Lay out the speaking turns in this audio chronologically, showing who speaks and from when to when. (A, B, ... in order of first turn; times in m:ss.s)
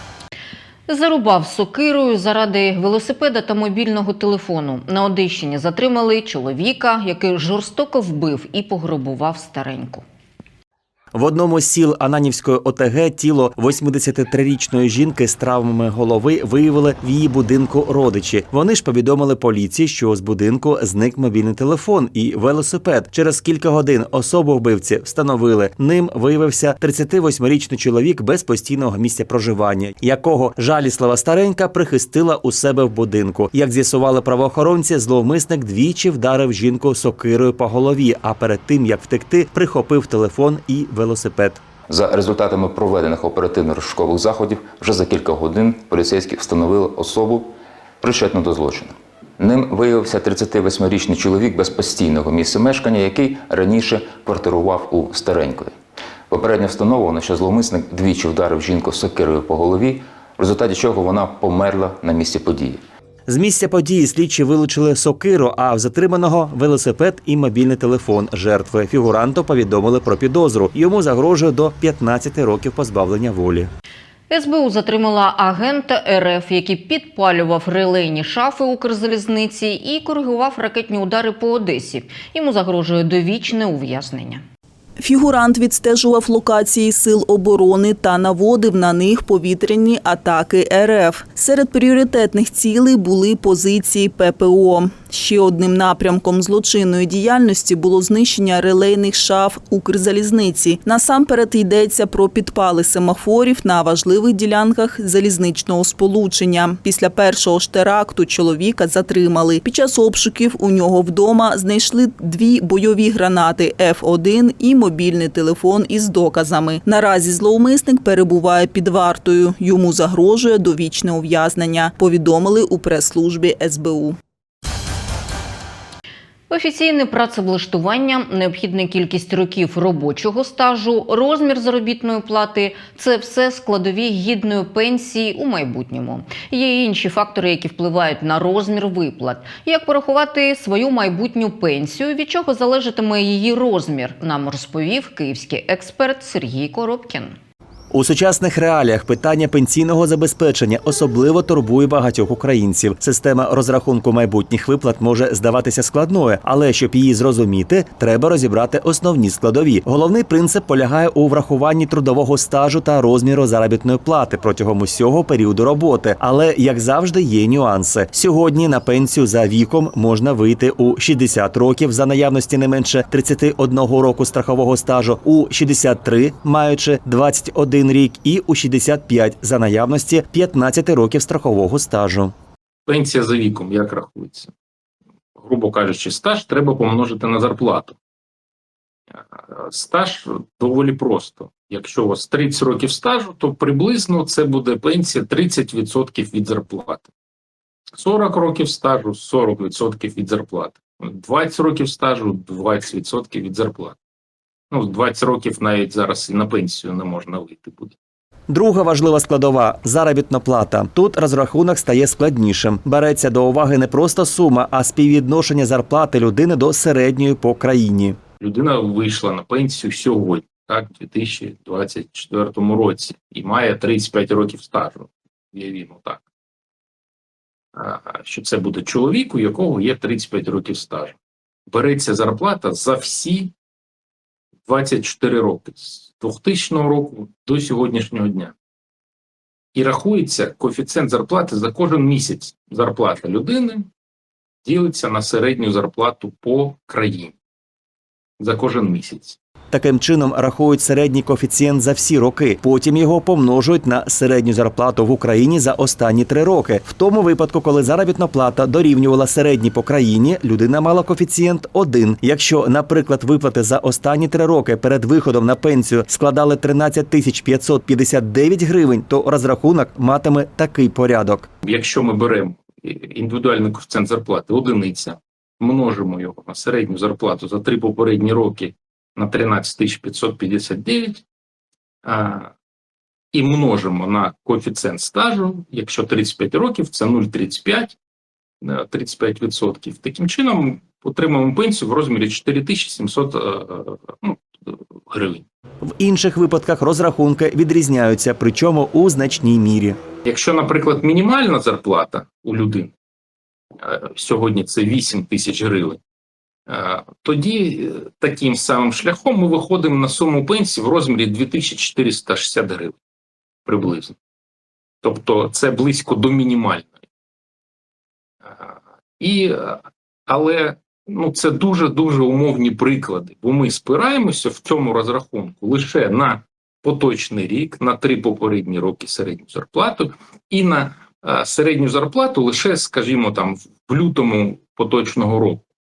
0:00.9-0:10.0 A
0:11.1-0:41.6 B
0:41.9-0:55.8 C
0:56.3-1:02.8 C
1:03.3-1:13.7 B
1:14.3-1:24.4 A
1:25.0-2:04.2 D
2:06.5-2:27.4 A
2:27.9-3:02.4 B
3:02.9-3:04.5 E
3:05.4-3:08.0 E
3:09.1-3:17.1 E
3:17.9-3:24.0 E
3:24.7-3:28.0 E
3:28.5-3:38.2 B
3:38.4-3:46.2 E
3:47.8-3:51.2 E
3:51.7-3:53.5 E
3:54.7-3:58.5 E
3:59.7-4:03.9 E
4:04.6-4:07.3 E
4:08.4-4:09.4 E
4:09.7-4:31.5 B
4:31.6-4:41.2 E
4:42.0-4:42.5 E
4:43.3-4:48.0 E
4:48.6-4:55.4 E
4:55.8-5:00.0 B
5:00.2-5:02.9 E
5:03.8-5:06.0 E
5:06.7-5:13.0 E
5:13.7-5:14.2 E
5:15.0-5:16.9 E
5:18.4-5:35.6 E